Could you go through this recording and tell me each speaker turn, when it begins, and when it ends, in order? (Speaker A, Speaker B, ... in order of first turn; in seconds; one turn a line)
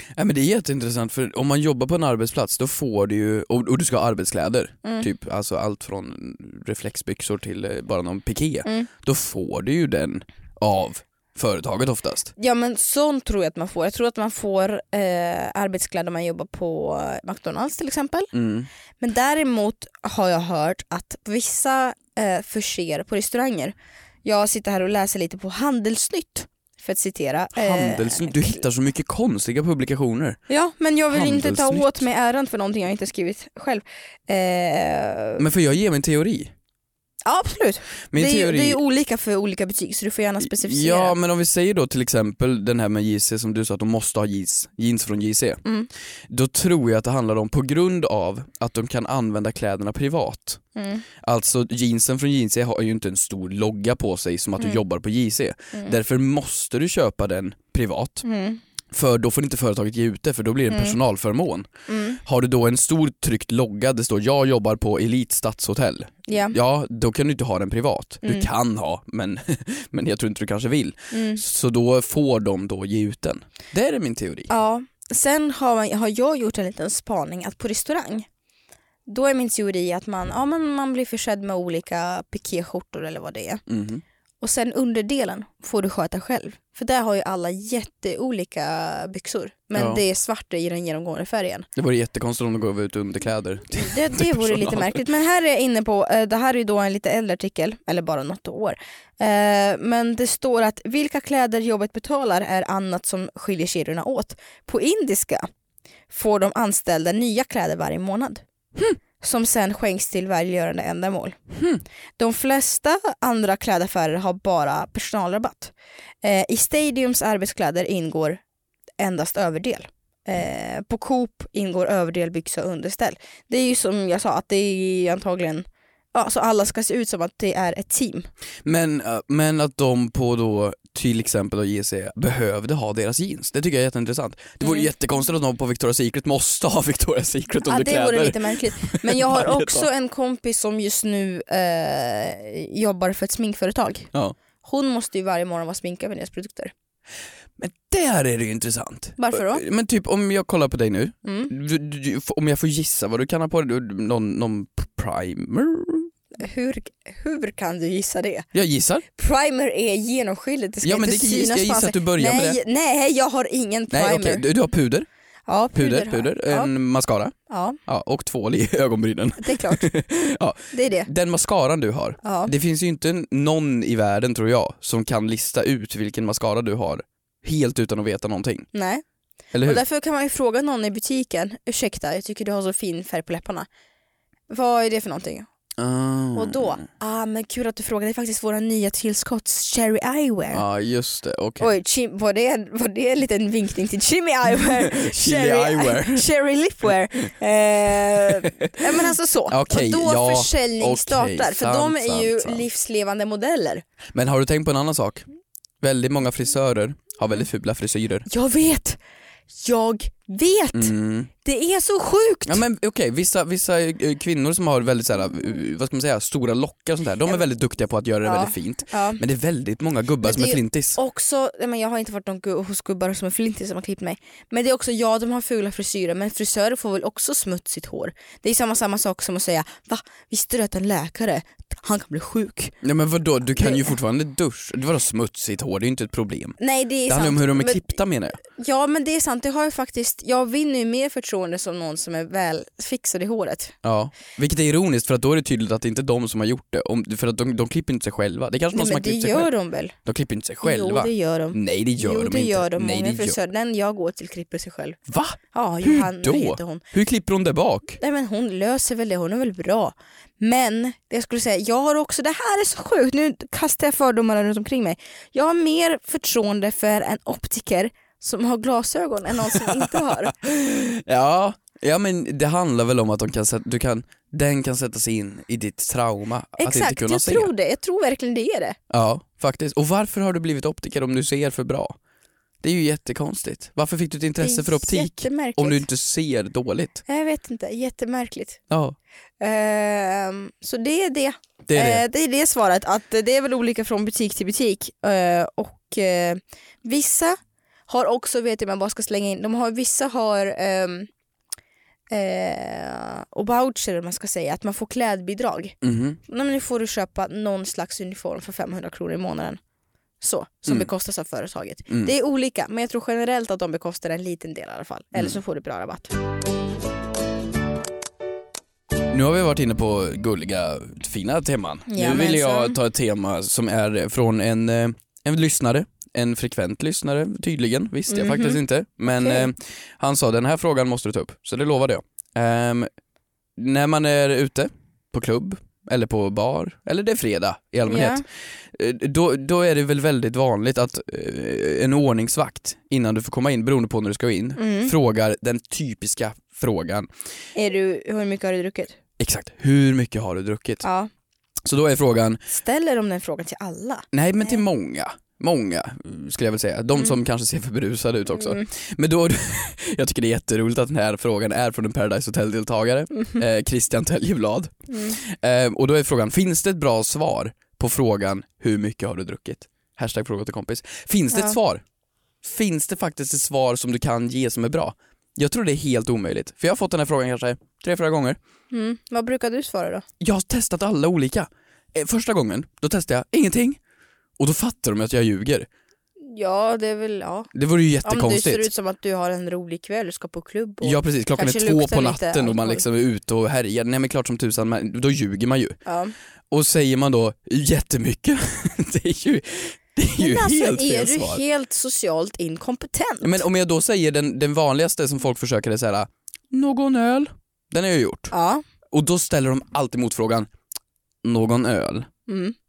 Speaker A: 0.2-12.3
Speaker B: 12.4-18.3
Speaker A: 18.3-18.7
Speaker B: 19.0-28.6
Speaker A: 27.6-30.4
Speaker B: 30.5-35.4
Speaker A: 31.1-32.0
Speaker A: 35.4-36.5
Speaker B: 37.2-41.1
Speaker A: 38.1-38.8
Speaker A: 40.4-45.6
Speaker B: 45.6-45.9
Speaker A: 46.3-50.6
Speaker B: 50.8-51.0
Speaker A: 51.2-58.2
Speaker B: 58.2-58.6
Speaker A: 58.9-61.7
Speaker B: 60.7-61.0
Speaker B: 61.9-62.2
Speaker A: 62.2-74.5
Speaker B: 66.3-66.5
Speaker B: 68.2-68.5
Speaker B: 71.1-71.4
Speaker B: 74.5-78.3
Speaker B: 79.1-83.6
Speaker A: 83.7-84.0
Speaker B: 84.4-91.7
Speaker A: 89.8-90.0
Speaker A: 91.8-95.0
Speaker B: 93.7-105.5
Speaker B: 106.1-108.4
Speaker B: 109.2-111.4
Speaker A: 111.5-111.8
Speaker B: 112.2-118.4
Speaker B: 119.0-128.3
Speaker A: 128.7-139.9
Speaker B: 134.6-134.9
Speaker B: 137.7-144.1
Speaker B: 144.6-146.7
Speaker A: 147.6-156.1
Speaker B: 149.2-149.6
Speaker B: 151.2-151.5
Speaker B: 156.4-158.5
Speaker A: 158.5-159.1
Speaker B: 159.2-164.5
Speaker A: 160.8-162.6
Speaker A: 163.9-165.1
Speaker B: 165.5-166.7
Speaker A: 165.7-167.3
Speaker B: 167.5-167.8
Speaker A: 167.9-178.7
Speaker B: 169.4-169.9
Speaker B: 170.7-171.1
Speaker B: 172.2-172.5
Speaker B: 178.7-179.0
Speaker A: 179.5-179.8
Speaker B: 179.6-183.7
Speaker B: 184.5-185.5
Speaker A: 185.8-186.8
Speaker B: 186.3-190.6
Speaker A: 190.5-191.7
Speaker B: 191.6-203.8
Speaker A: 194.5-196.2
Speaker A: 198.2-202.7
Speaker A: 204.1-205.3
Speaker A: 205.8-208.3
Speaker B: 208.3-209.0
Speaker B: 209.5-212.6
Speaker A: 210.7-211.3
Speaker A: 212.5-221.0
Speaker B: 218.2-219.2
Speaker B: 220.2-232.8
Speaker A: 232.8-238.4
Speaker B: 233.6-233.9
Speaker B: 236.6-243.7
Speaker A: 243.8-249.5
Speaker B: 248.7-249.9
Speaker A: 250.1-253.4
Speaker B: 250.6-255.0
Speaker A: 255.1-258.0
Speaker B: 255.5-256.8
Speaker B: 258.0-270.3
Speaker A: 269.5-277.5
Speaker B: 276.6-278.8
Speaker A: 278.9-282.0
Speaker A: 282.6-287.0
Speaker B: 284.4-285.8
Speaker B: 287.1-288.6
Speaker A: 288.7-289.0
Speaker B: 289.4-297.4
Speaker A: 291.7-292.0
Speaker B: 297.9-301.1
Speaker B: 302.1-305.8
Speaker A: 305.8-306.2
Speaker B: 306.3-309.6
Speaker B: 310.2-316.1
Speaker A: 319.1-332.9
Speaker B: 321.9-322.8
Speaker B: 328.1-329.5
Speaker A: 333.6-347.1
Speaker B: 337.9-338.2
Speaker B: 344.6-344.9
Speaker B: 347.6-349.0
Speaker A: 349.2-350.9
Speaker B: 350.8-351.1
Speaker A: 351.6-352.4
Speaker B: 352.5-354.6
Speaker A: 354.1-371.8
Speaker B: 358.4-358.7
Speaker B: 363.1-363.4
Speaker B: 364.9-365.2
Speaker A: 372.4-378.4
Speaker B: 378.7-380.1
Speaker A: 380.2-383.8
Speaker A: 384.4-385.7
Speaker B: 386.2-387.5
Speaker A: 387.5-388.7
Speaker B: 388.0-392.8
Speaker A: 390.8-395.8
Speaker B: 395.9-396.1
Speaker A: 396.5-401.4
Speaker B: 400.2-403.4
Speaker A: 403.2-408.3
Speaker B: 408.3-408.6
Speaker A: 408.9-410.5
Speaker A: 411.2-412.1
Speaker B: 412.3-412.6